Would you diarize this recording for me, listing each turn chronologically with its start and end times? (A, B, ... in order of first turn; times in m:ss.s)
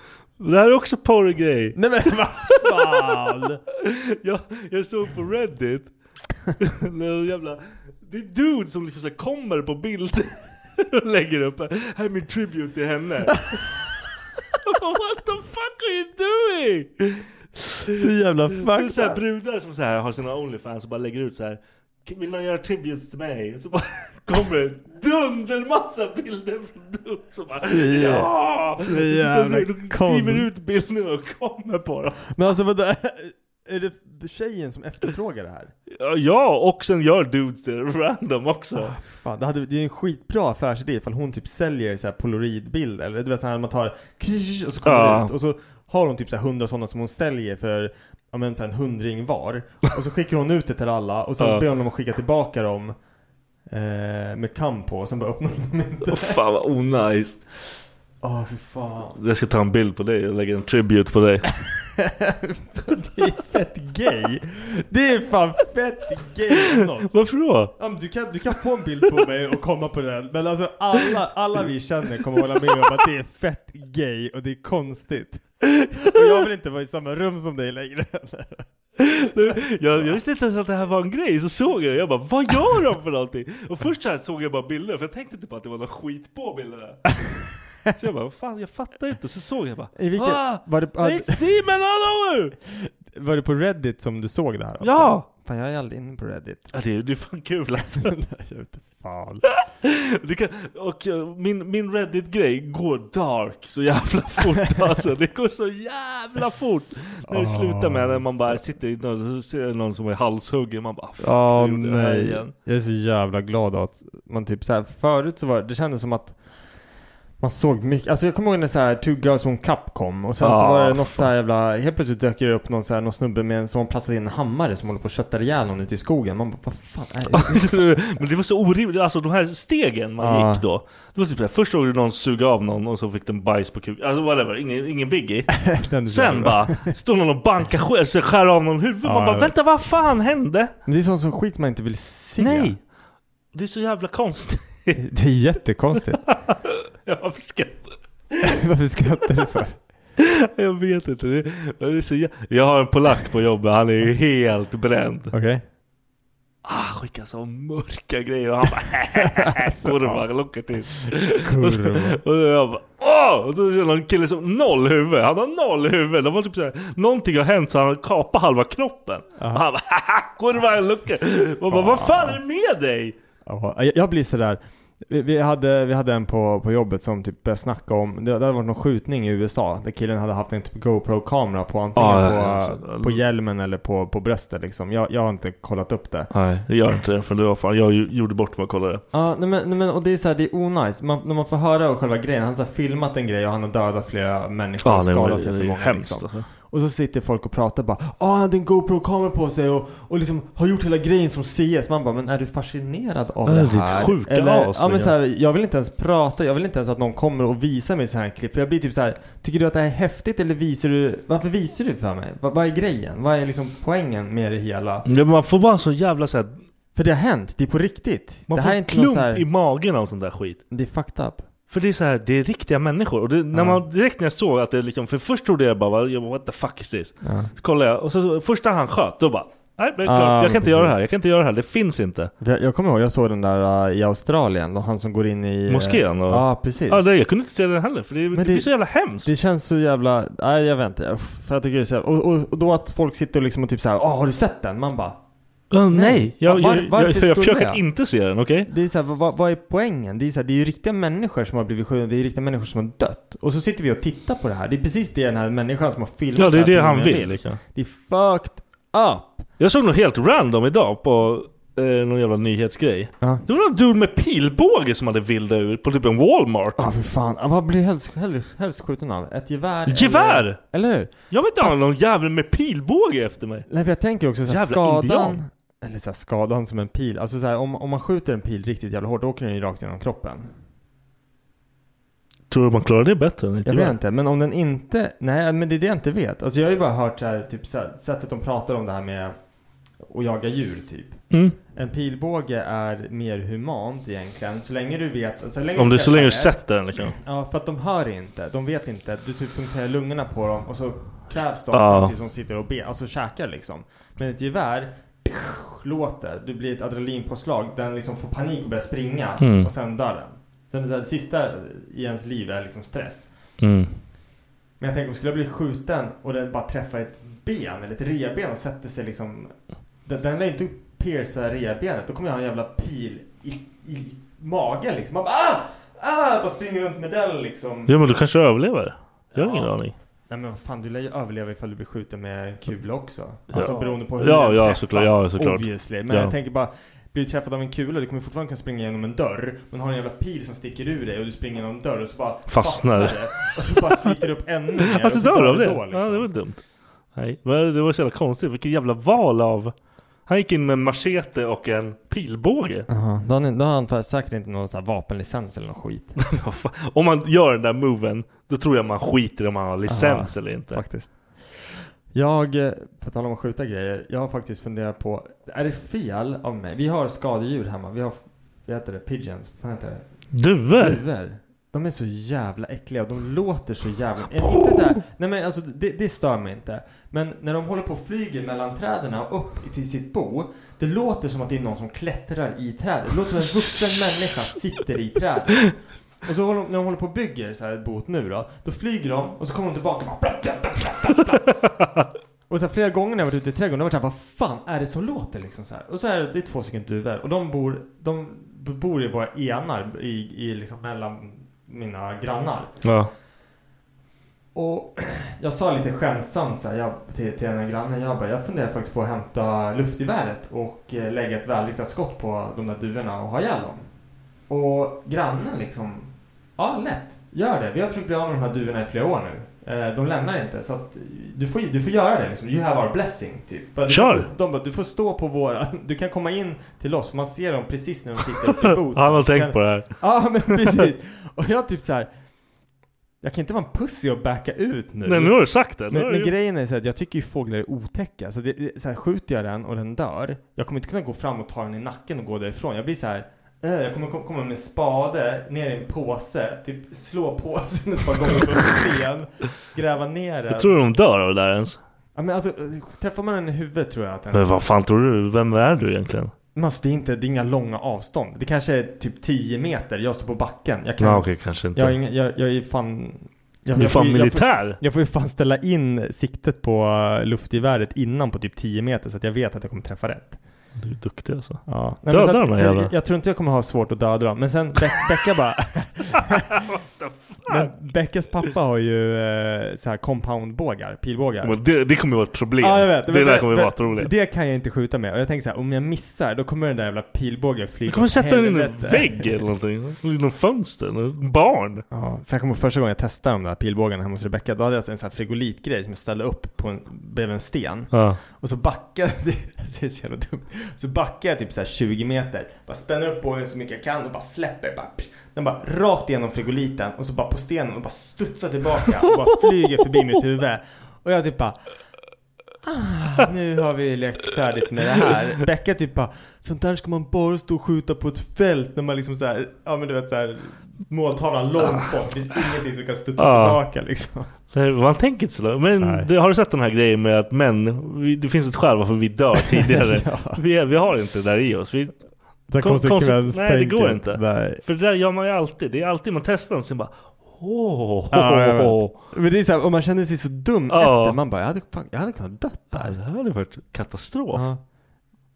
0:00.4-0:01.8 A
0:01.8-0:03.6 B
0:02.6-0:03.1 A
0:03.8-0:06.0 A
0:06.6-0:13.6 A
0:14.6-0:17.3 A
0:17.9-0:19.2 B
0:18.6-0:32.3 A
0:27.6-0:30.5 B
0:32.3-0:35.7 B
0:35.9-0:39.0 A
0:38.8-0:53.0 B
0:44.8-0:45.3 A
0:51.4-0:51.7 A
0:53.7-0:56.4 B
0:56.1-0:57.5 A
0:58.2-0:59.2 B
0:59.2-1:01.5 A
1:01.6-1:15.4 B
1:07.1-1:07.7 A
1:15.7-1:16.2 A
1:16.0-1:18.7 B
1:19.0-1:27.1 A
1:28.0-1:32.6 A
1:30.0-1:31.4 B
1:32.7-1:36.8 B
1:34.8-1:35.3 A
1:36.7-1:38.2 A
1:37.9-1:39.4 B
1:39.5-1:52.5 A
1:47.3-1:48.6 B
1:51.2-1:56.4 B
1:57.4-2:08.0 B
2:00.4-2:01.3 A
2:07.3-2:20.7 A
2:10.2-2:10.6 B
2:15.6-2:16.9 B
2:19.0-2:19.5 B
2:20.9-2:22.7 B
2:22.4-2:22.9 A
2:23.5-2:25.0 A
2:25.0-2:26.2 B
2:26.3-2:26.5 A
2:27.0-2:28.0 A
2:28.4-2:29.8 B
2:30.2-2:35.3 A
2:35.3-2:35.6 B
2:36.6-2:53.2 A
2:39.2-2:40.2 B
2:41.3-2:42.2 B
2:49.4-2:49.6 B
2:51.7-2:52.4 B
2:53.4-3:06.3 B
3:02.0-3:03.2 A
3:06.3-3:09.0 A
3:09.1-3:35.1 B
3:14.8-3:16.5 A
3:23.5-3:25.1 A
3:35.1-3:36.6 A
3:37.0-3:39.5 B
3:38.5-3:40.6 A
3:40.7-3:41.5 B
3:41.7-3:52.3 A
3:43.5-3:43.8 B
3:47.2-3:47.5 B
3:50.0-3:51.0 B
3:52.4-3:57.1 B
3:55.7-3:59.3 A
3:58.3-4:05.2 B
4:05.7-4:08.7 A
4:05.9-4:07.8 B
4:08.7-4:19.5 B
4:16.4-4:17.6 A
4:19.6-4:26.8 A
4:23.2-4:23.4 B
4:26.8-4:31.8 B
4:29.9-4:30.6 A
4:31.3-4:33.7 A
4:33.7-4:40.5 B
4:34.5-4:35.4 A
4:42.5-4:44.0 A
4:43.7-4:49.4 B
4:50.0-5:13.3 B
4:51.3-4:51.6 A
4:55.8-4:57.2 A
5:01.7-5:02.1 A
5:09.4-5:09.7 A
5:13.6-5:14.0 A
5:14.8-5:28.1 B
5:27.9-5:30.0 A
5:29.3-5:29.7 B
5:30.3-5:46.3 B
5:33.5-5:36.3 A
5:42.5-5:43.8 A
5:44.8-5:46.6 A
5:47.2-5:49.7 A
5:50.3-5:52.9 A
5:52.9-5:56.2 B
5:56.2-6:00.8 A
5:59.9-6:10.1 B
6:10.3-6:11.0 A
6:10.7-6:31.5 B
6:31.6-6:32.1 A
6:32.5-6:42.8 B
6:42.8-6:43.1 A
6:44.5-6:53.9 B
6:54.5-7:12.1 B
7:03.9-7:04.3 A
7:08.6-7:10.0 A
7:10.6-7:10.9 A
7:13.2-7:30.8 B
7:15.0-7:16.3 A
7:30.5-7:31.8 A
7:32.2-7:34.6 B
7:34.3-7:36.3 A
7:36.6-7:50.4 B
7:41.0-7:42.0 A
7:43.8-7:44.8 A
7:50.8-7:52.9 A
7:51.7-7:56.6 B
7:56.5-7:57.7 A
7:57.5-8:01.6 B
8:01.4-8:04.1 A
8:02.6-8:09.4 B
8:07.9-8:11.8 A
8:11.9-8:31.6 B
8:17.9-8:18.2 A
8:32.6-8:44.3 B
8:41.6-8:41.9 A
8:43.2-8:43.6 A
8:44.5-8:52.0 A
8:45.8-8:46.1 B
8:49.4-8:50.4 B
8:52.5-8:54.6 B
8:52.6-8:59.0 A
8:58.1-9:03.0 B
9:00.7-9:01.2 A
9:02.7-9:04.5 A
9:04.3-9:04.6 B